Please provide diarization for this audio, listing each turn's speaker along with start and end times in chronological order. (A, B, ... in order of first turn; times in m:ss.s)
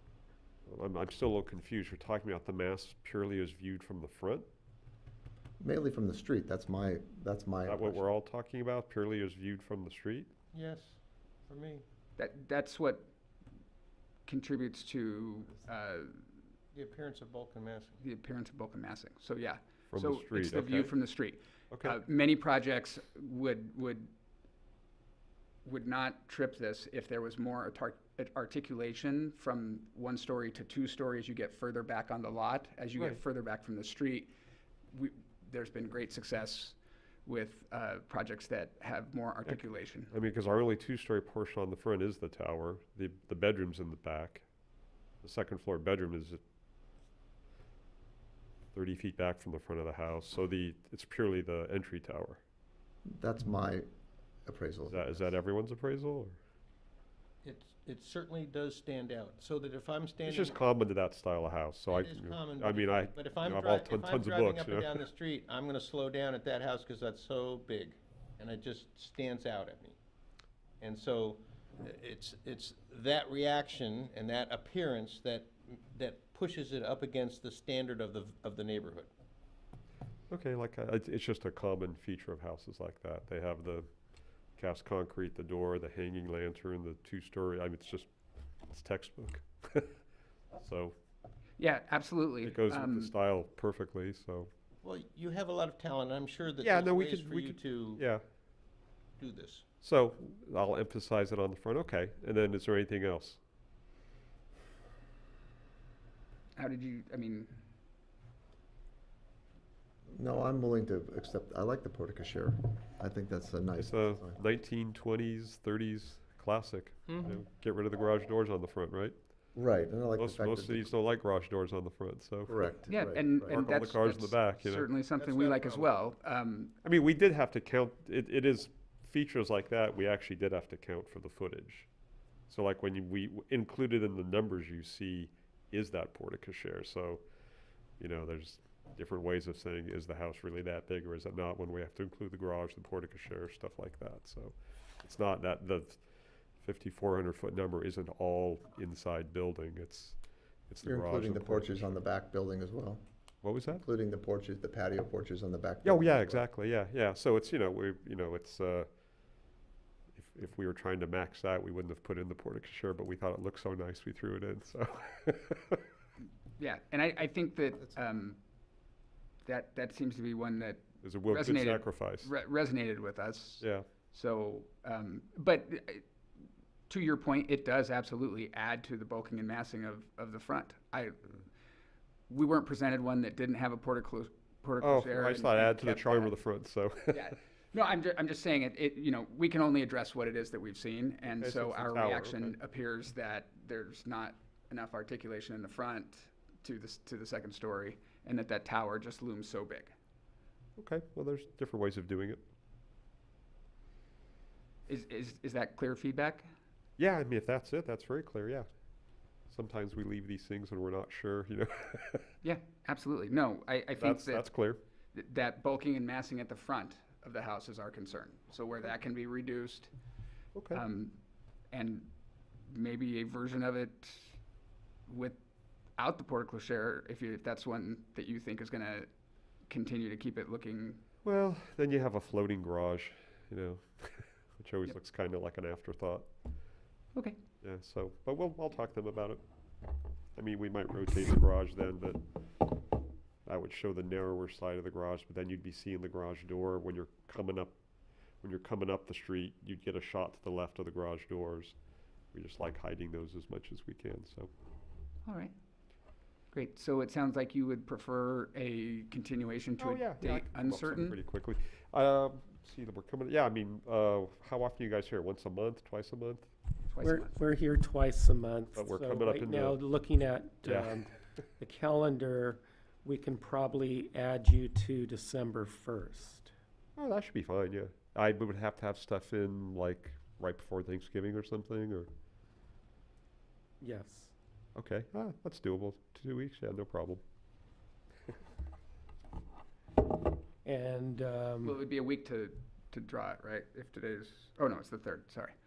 0:00.6-0:04.5 A
0:05.6-0:08.0 B
0:07.6-0:10.3 A
0:10.5-0:11.8 C
0:12.2-0:13.1 D
0:14.2-0:16.2 D
0:16.7-0:18.0 C
0:18.0-0:24.1 D
0:19.9-0:20.9 A
0:21.7-0:22.0 A
0:25.6-0:34.3 D
0:34.9-0:40.1 D
0:40.1-0:44.4 A
0:45.2-0:46.4 A
0:48.7-0:52.4 A
0:53.1-0:53.8 B
0:54.4-0:55.3 B
0:54.9-0:56.4 A
0:57.4-1:00.6 C
1:00.2-1:05.0 A
1:01.9-1:10.0 C
1:10.8-1:19.1 C
1:20.3-1:23.9 A
1:24.6-1:28.1 A
1:28.7-1:30.0 A
1:30.6-1:31.0 A
1:31.6-1:33.1 D
1:32.4-1:34.5 A
1:34.8-1:38.0 C
1:36.6-1:38.2 A
1:39.2-1:39.6 C
1:39.8-1:43.4 A
1:46.6-1:47.6 D
1:50.1-1:54.4 B
1:53.8-1:59.2 A
1:57.1-1:57.3 C
1:59.5-2:00.9 B
2:00.2-2:02.6 A
2:02.5-2:03.6 B
2:02.9-2:06.7 D
2:03.5-2:04.9 A
2:05.2-2:05.9 C
2:06.8-2:11.9 A
2:12.5-2:17.2 A
2:18.0-2:26.0 A
2:26.6-2:32.0 A
2:30.8-2:33.0 B
2:33.4-2:33.8 A
2:33.7-2:36.4 B
2:35.8-2:38.9 A
2:40.1-2:45.8 A
2:46.6-2:48.4 D
2:49.4-2:56.0 D
2:51.0-2:52.3 A
2:53.6-2:53.8 A
2:56.9-3:01.4 D
3:02.3-3:06.3 D
3:04.8-3:07.3 A
3:07.1-3:19.9 D
3:11.4-3:12.5 A
3:20.8-3:22.4 A
3:24.9-3:26.5 D
3:27.0-3:28.7 A
3:29.5-3:32.3 A
3:32.4-3:34.5 D
3:34.0-3:34.8 A
3:35.1-3:39.9 D
3:40.5-3:40.8 A
3:40.7-3:41.2 D
3:41.7-3:42.1 D
3:42.7-3:44.4 D
3:45.1-3:45.4 D
3:46.0-3:49.1 D
3:49.7-3:51.0 D
3:51.2-3:56.3 A
3:57.6-3:59.4 A
4:00.3-4:02.2 A
4:03.4-4:07.7 A
4:08.4-4:11.8 A
4:12.3-4:14.5 A
4:15.2-4:15.5 D
4:16.5-4:21.2 D
4:19.8-4:26.5 A
4:26.9-4:27.3 D
4:27.0-4:36.5 E
4:28.8-4:29.8 A
4:30.6-4:31.1 A
4:37.0-4:42.1 A
4:43.8-4:44.3 E
4:44.8-4:47.2 A
4:50.6-4:51.8 E
4:51.6-4:55.5 D